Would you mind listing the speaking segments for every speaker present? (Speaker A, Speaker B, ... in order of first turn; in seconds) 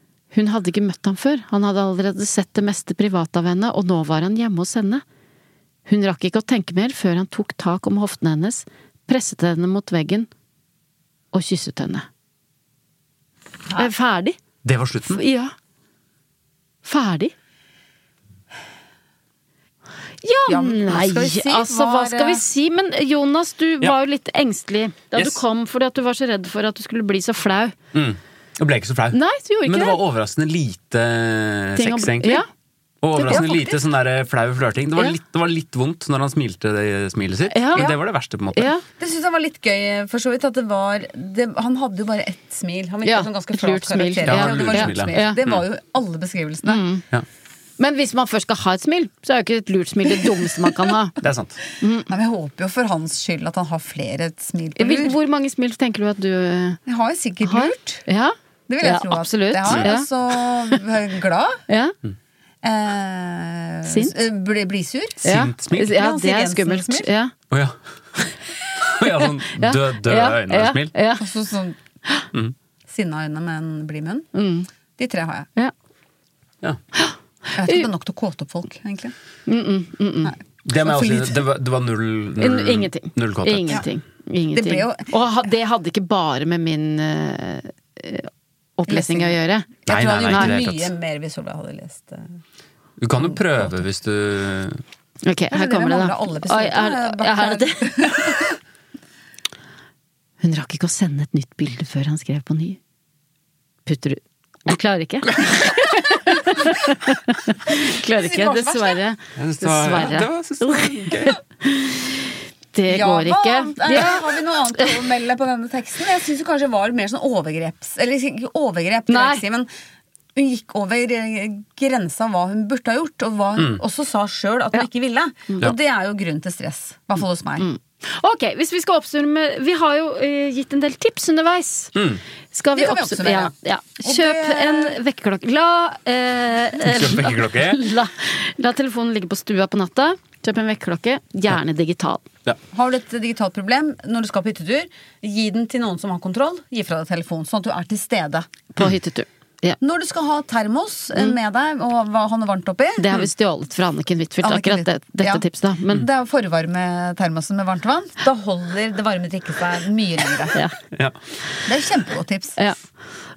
Speaker A: 0.3-5.0, 5.8-10.3, 11.3-12.1, 13.8-14.4, 15.1-15.5, 16.8-17.3, 20.2-27.7, 29.1-30.0, 31.8-32.5, 33.1-33.5, 37.5-37.9, 38.5-38.8, 43.0-45.4, 46.6-47.0, 47.8-51.1, 51.8-52.1, 54.8-56.8, 57.4-60.8, 61.7-62.0, 63.9-64.2, 65.2-67.3, 69.5-71.2, 74.3-74.7, 77.0-77.9, 79.5-80.3, 82.4-89.7, 90.3-90.6, 95.2-98.5, 100.4-102.8, 103.8-114.2, 119.1-119.4, 127.6-131.9, 132.5-142.2, 148.7-149.8, 153.0-156.0
Speaker B: 14.6-15.2, 25.1-25.4, 27.9-32.4, 33.0-38.7, 44.2-45.6, 51.2-51.6, 65.2-66.0, 67.5-67.8, 68.8-70.9, 80.7-83.8, 89.9-90.9, 93.0-94.8, 109.3-111.4, 123.6-123.8, 131.9-132.2, 136.8-137.8
Speaker C: 20.5-22.4, 33.3-33.8, 39.0-46.8, 52.1-55.1, 56.9-58.0, 58.7-61.6, 62.6-65.2, 65.8-67.1, 71.2-71.8, 72.9-74.3, 75.0-75.5, 77.6-79.1, 80.2-81.3, 84.5-85.1, 88.9-92.3, 95.5-98.6, 107.7-109.0, 112.9-119.7, 120.3-127.7, 132.7-133.5, 134.0-135.0, 142.7-148.5, 149.8-153.2, 154.4-160.6, 161.7-162.6